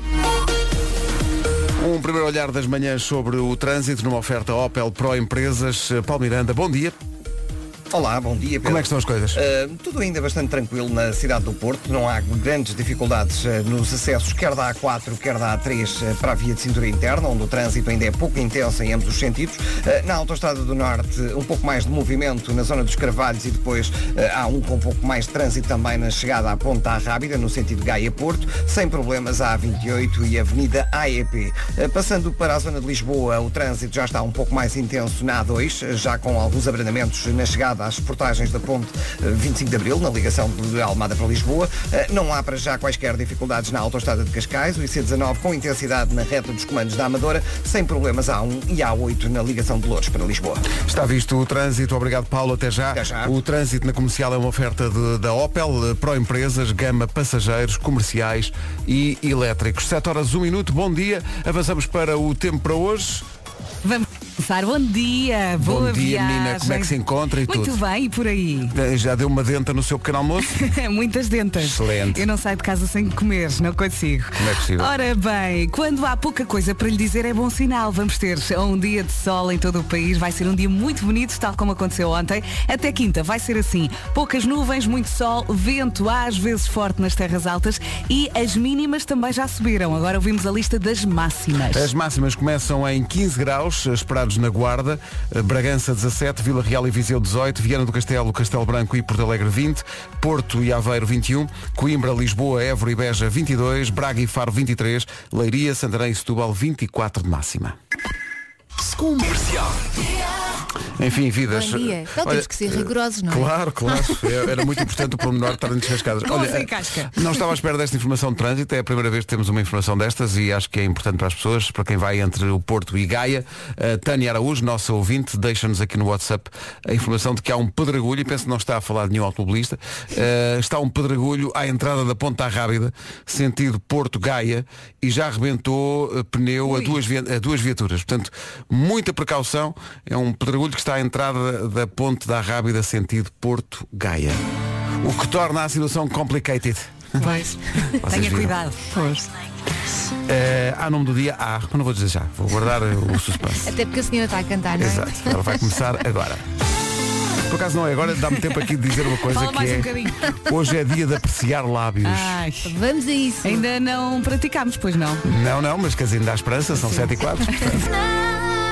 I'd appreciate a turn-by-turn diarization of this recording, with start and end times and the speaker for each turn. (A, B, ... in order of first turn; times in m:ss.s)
0:01.8-0:07.0 A
0:07.9-0:50.7 B
0:08.6-0:09.4 A
0:50.7-1:03.3 A
0:52.9-0:53.4 B
1:03.8-1:08.8 C
1:05.6-1:07.8 A
1:08.7-1:10.6 A
1:10.5-1:31.9 C
1:11.6-1:12.3 A
1:14.4-1:14.9 A
1:31.7-1:47.8 A
1:51.0-2:24.4 A
1:51.5-1:54.7 D
1:56.2-1:57.3 C
2:16.7-2:17.0 C
2:25.0-2:27.3 A
2:27.2-2:29.0 C
2:27.2-2:27.9 D
2:27.8-2:29.0 A
2:30.3-2:33.8 A
2:33.6-2:35.8 D
2:34.8-2:36.4 A
2:37.5-2:42.4 A
2:39.2-2:40.5 C
2:42.0-2:42.8 C
2:42.6-2:43.7 D
2:43.4-2:45.2 C
2:45.2-2:47.9 A
2:46.8-2:47.8 C
2:48.1-2:48.4 D